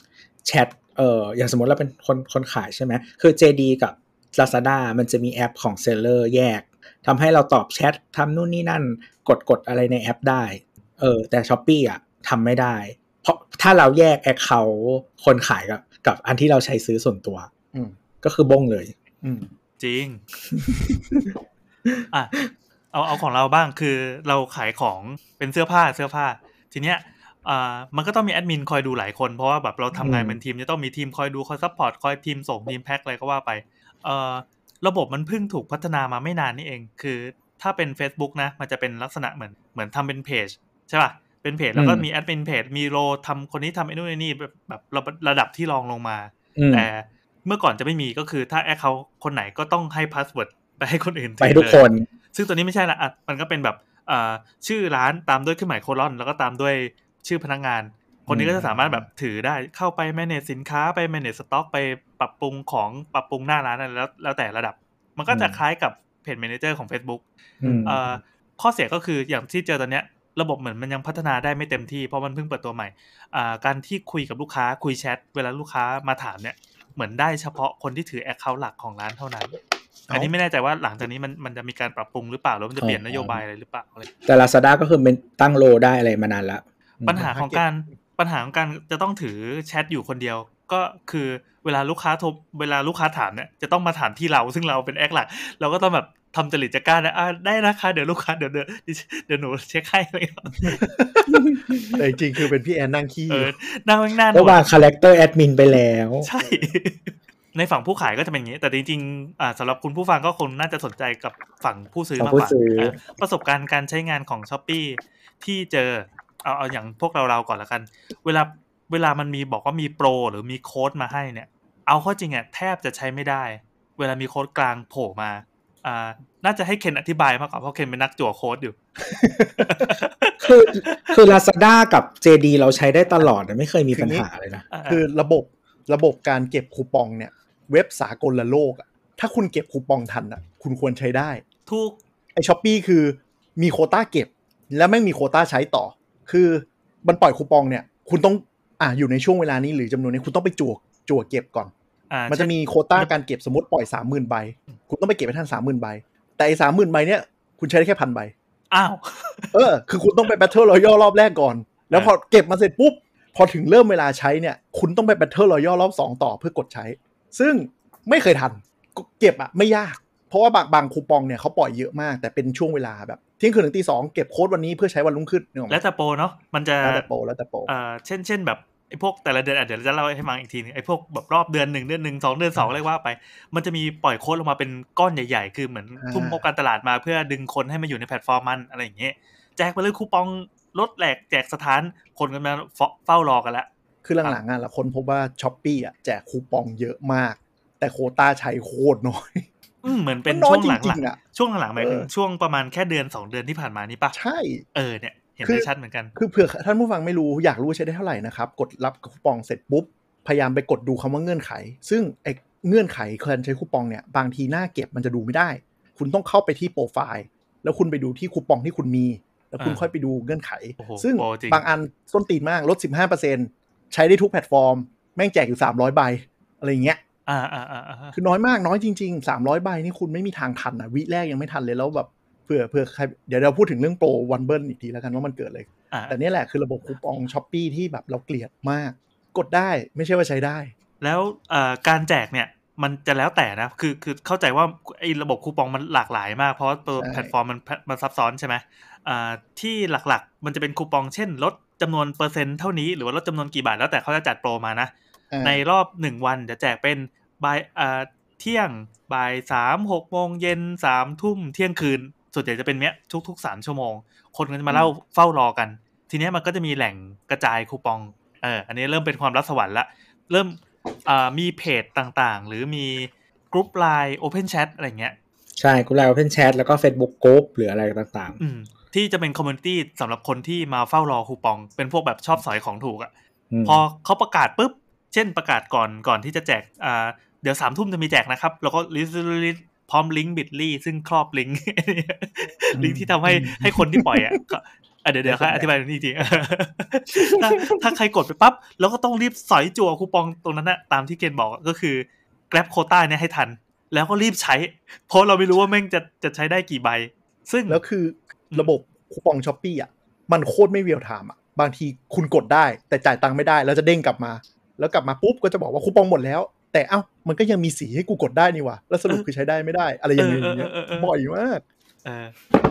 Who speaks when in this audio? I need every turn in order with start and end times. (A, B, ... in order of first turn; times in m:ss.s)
0:00.4-0:17.5 A
0:18.2-0:18.9 A
0:19.2-0:19.5 B
0:19.8-0:20.2 C
0:22.1-0:22.4 C
0:22.9-1:19.6 C
0:30.0-0:30.4 A
0:41.8-0:42.1 A
0:46.6-0:46.9 A
0:51.4-0:52.1 A
0:58.3-0:58.7 A
0:58.8-0:59.0 B
1:05.3-1:05.6 A
1:07.6-1:08.2 A
1:20.1-1:24.1 C
1:22.8-1:23.4 A
1:24.2-1:27.3 A
1:27.0-1:40.9 C
1:27.2-1:27.6 B
1:40.6-1:43.5 B
1:43.3-1:44.7 C
1:44.3-1:46.3 A
1:46.2-2:08.8 C
1:46.4-1:46.6 B
1:52.2-1:53.0 A
2:09.1-2:09.9 B
2:09.6-2:11.2 C
2:10.4-2:14.7 A
2:13.9-2:14.3 B
2:14.7-2:15.0 C
2:14.9-2:21.4 B
2:21.7-2:22.0 C
2:22.4-2:31.7 B
2:32.1-2:33.1 C
2:32.3-2:38.3 B
2:38.7-2:39.6 C
2:39.5-2:55.8 B
2:55.7-2:57.1 C
2:56.8-2:57.7 B
2:57.7-3:13.7 C
3:06.0-3:06.4 B
3:14.0-3:19.5 B
3:19.8-3:24.2 C
3:20.3-3:21.2 B
3:21.8-3:22.1 B
3:24.1-3:24.6 B
3:24.8-3:26.1 C
3:25.4-3:47.0 B
3:39.6-3:39.9 C
3:40.8-3:41.6 C
3:47.3-3:48.2 C
3:48.1-4:00.7 B
4:01.0-4:14.9 C
4:07.0-4:07.3 B
4:15.3-4:15.6 B
4:15.4-4:35.2 C
4:35.6-4:38.4 A
4:38.4-4:43.1 C
4:43.5-4:43.8 A
4:43.6-5:07.8 C
4:52.8-4:54.4 B
4:55.2-4:55.7 B
4:57.2-4:57.8 B
5:07.7-5:21.6 B
5:20.2-5:21.1 C
5:22.0-5:22.4 C